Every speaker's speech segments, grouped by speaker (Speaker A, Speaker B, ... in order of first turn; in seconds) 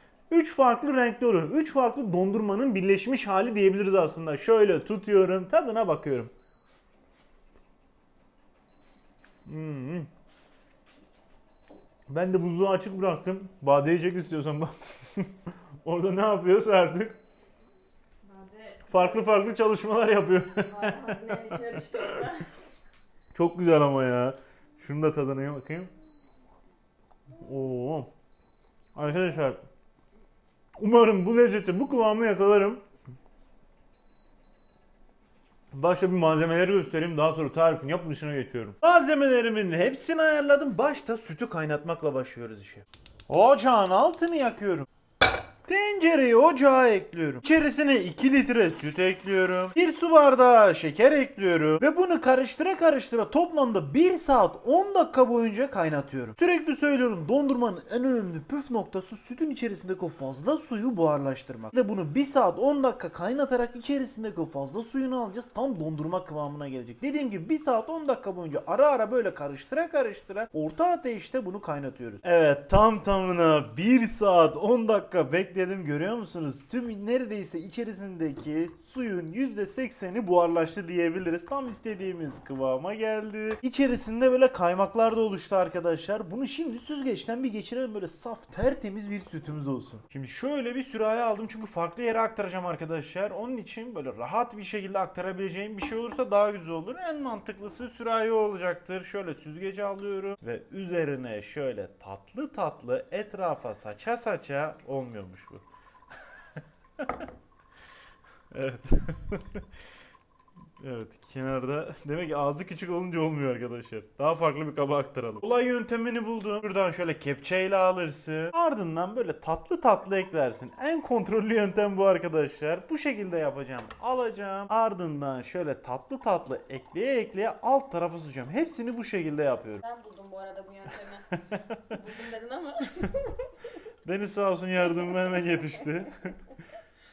Speaker A: 0.3-6.3, 9.5-10.1, 12.1-17.2, 18.9-22.4, 23.3-25.9, 27.3-28.1, 28.9-29.6, 30.8-32.8, 35.7-44.9, 45.6-105.6, 107.0-107.3, 108.5-109.7, 110.8-129.8, 131.3-132.0, 134.1-136.4
Speaker B: 18.2-19.0, 20.7-22.5, 129.8-133.5